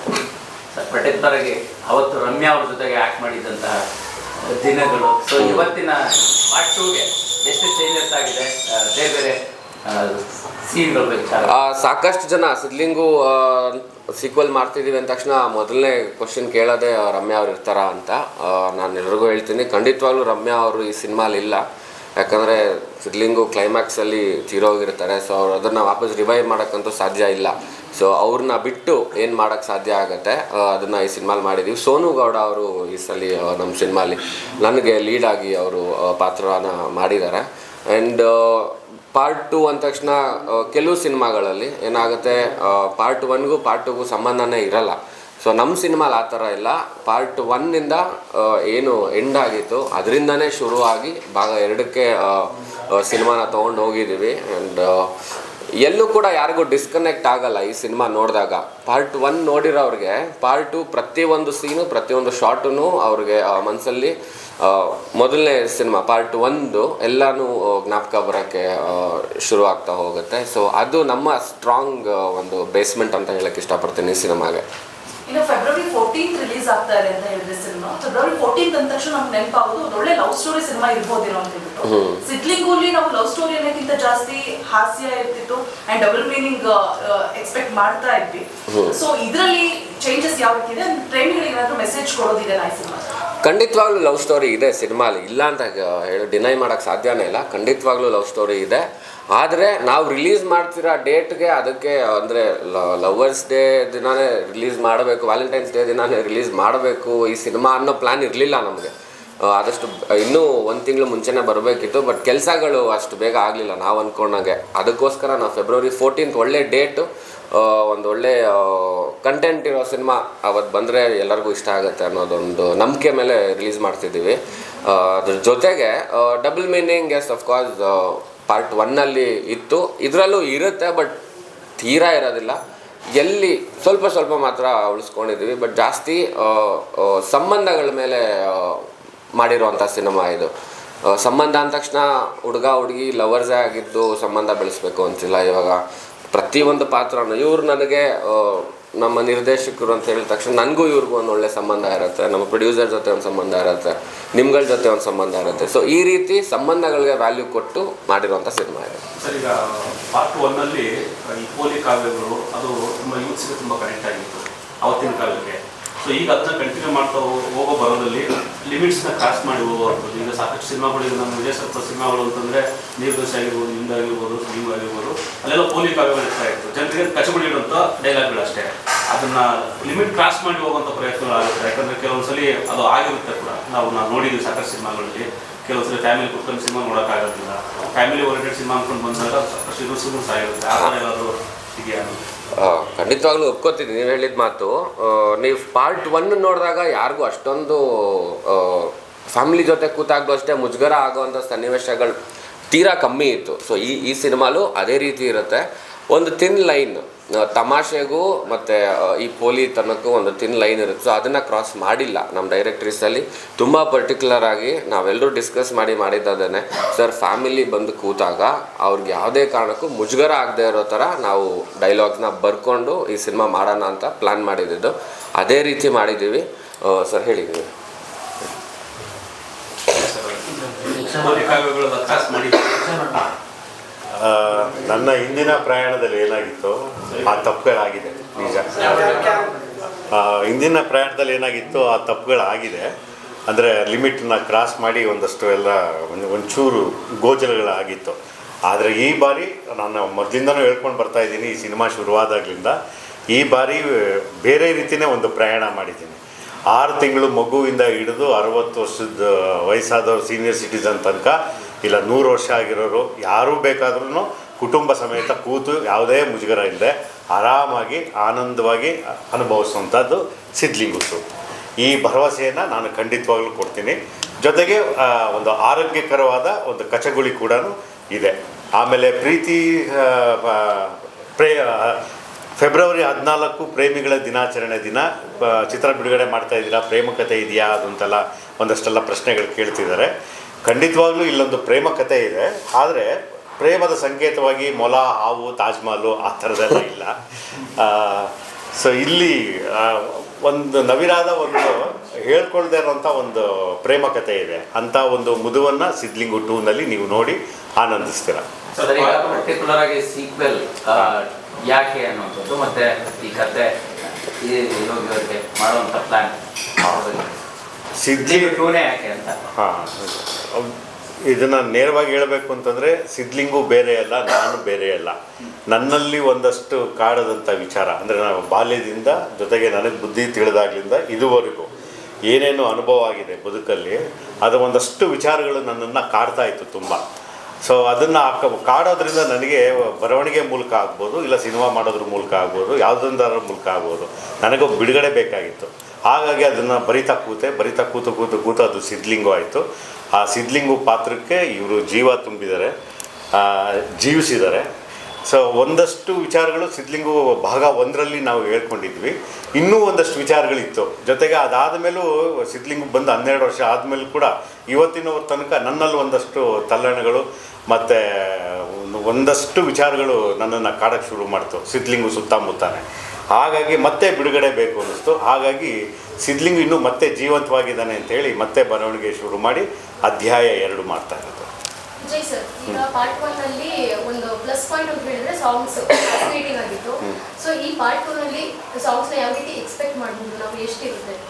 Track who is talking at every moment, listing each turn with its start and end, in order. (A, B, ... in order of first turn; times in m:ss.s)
0:00.8-0:03.8 A
0:04.5-0:11.5 A
0:05.4-0:05.7 B
0:11.4-0:21.6 B
0:22.2-0:55.1 B
0:55.8-1:14.6 B
1:15.3-1:33.0 C
1:21.8-1:22.2 B
1:28.7-1:29.0 B
1:33.4-1:48.9 B
1:49.4-2:11.2 B
2:11.8-2:12.6 B
2:13.2-2:20.5 B
2:21.1-2:25.8 B
2:26.3-2:39.0 B
2:39.2-3:12.2 D
3:12.6-3:22.2 B
3:22.7-3:47.7 B
3:49.9-3:53.2 D
3:54.1-3:59.2 E
3:57.1-3:57.5 D
3:58.4-3:59.5 D
4:00.1-4:02.9 E
4:03.5-4:12.8 E
4:13.3-4:16.2 E
4:16.7-4:31.2 E
4:31.8-4:42.0 E
4:42.6-4:50.1 E
4:50.6-5:08.4 E
5:08.8-5:09.5 D
5:08.8-5:13.7 A
5:14.4-5:16.3 A
5:16.9-5:17.2 A
5:17.9-5:18.6 E
5:18.2-5:19.4 A
5:19.5-5:25.2 E
5:25.7-5:31.7 E
5:32.2-5:37.0 E
5:37.6-5:49.6 E
5:50.1-5:52.7 E
5:53.3-5:54.7 E
5:55.2-6:12.8 E
6:13.3-6:21.5 E
6:22.0-6:31.2 F